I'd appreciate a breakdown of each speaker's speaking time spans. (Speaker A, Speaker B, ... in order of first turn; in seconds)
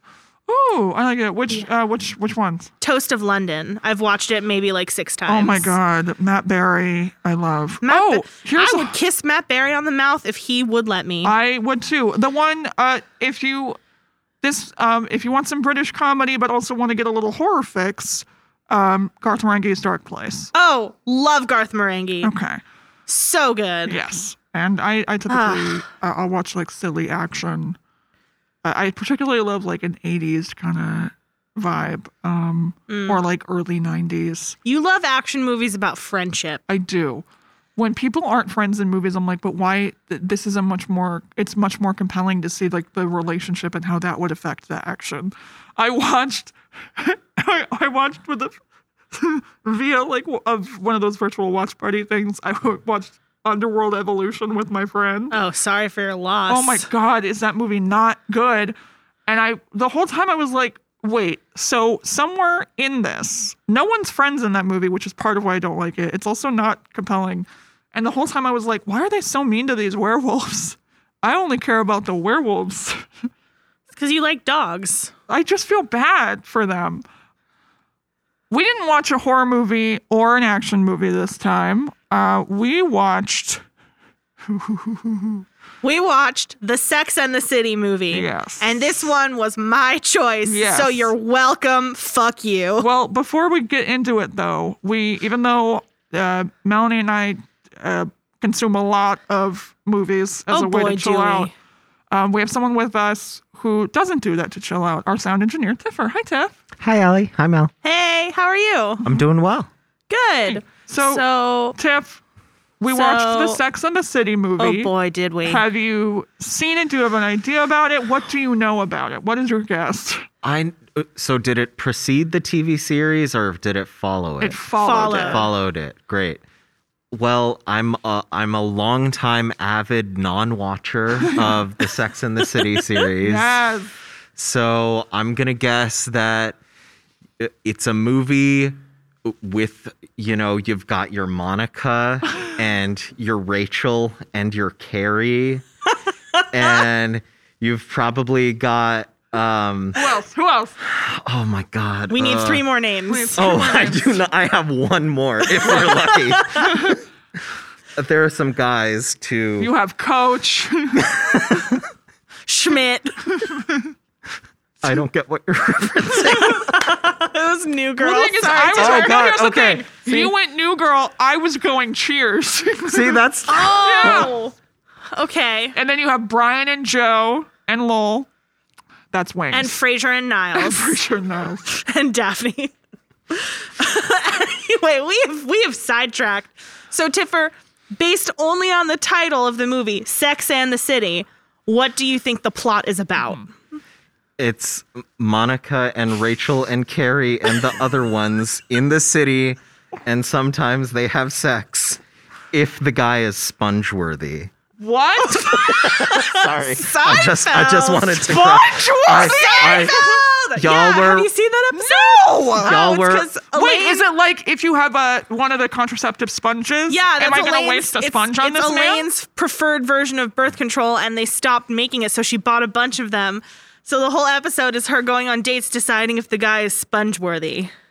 Speaker A: 0.5-2.7, 5.3-8.9, 11.2-13.8, 14.4-20.5, 22.2-22.6, 23.9-27.8, 28.6-34.6, 36.7-37.2, 37.8-48.6, 49.1-55.4, 56.5-58.8, 59.3-73.0, 75.3-77.0, 78.5-83.6, 84.5-85.5, 88.1-88.9, 90.5-91.1, 92.8-101.5, 102.1-106.5, 110.5-111.2, 111.8-112.2, 112.8-114.9, 115.5-120.2, 124.4-125.5, 131.3-131.7, 133.2-133.9, 150.0-150.8, 153.1-154.2, 159.6-161.7, 168.0-174.3, 175.8-178.3, 179.1-179.8, 180.5-181.7, 204.8-206.1, 208.2-210.2, 211.7-212.8, 213.5-219.1
Speaker B: 2.8-5.7, 7.8-11.3, 20.5-22.3, 23.1-24.0, 25.3-25.8, 32.9-33.2, 34.6-36.6, 55.3-56.9, 73.9-75.1, 85.8-92.9, 100.5-101.5, 107.8-109.1, 110.1-111.8, 112.9-113.6, 114.6-115.6, 124.8-125.5, 152.1-153.6, 155.8-156.9, 161.5-161.8, 162.5-163.3, 166.2-169.3, 173.5-174.6, 175.1-175.8, 179.5-181.0, 181.7-182.7, 183.3-193.5, 205.9-208.2, 209.1-214.0, 216.9-227.7
Speaker C: 106.8-107.7, 109.0-109.7, 120.4-126.4, 127.1-133.6, 134.4-136.6, 137.4-145.6, 146.5-150.1, 150.8-152.7, 153.3-156.9, 158.0-159.7, 164.8-166.8, 168.8-170.3, 172.9-174.3, 194.4-202.0, 202.5-204.5, 205.3-211.3, 212.6-213.3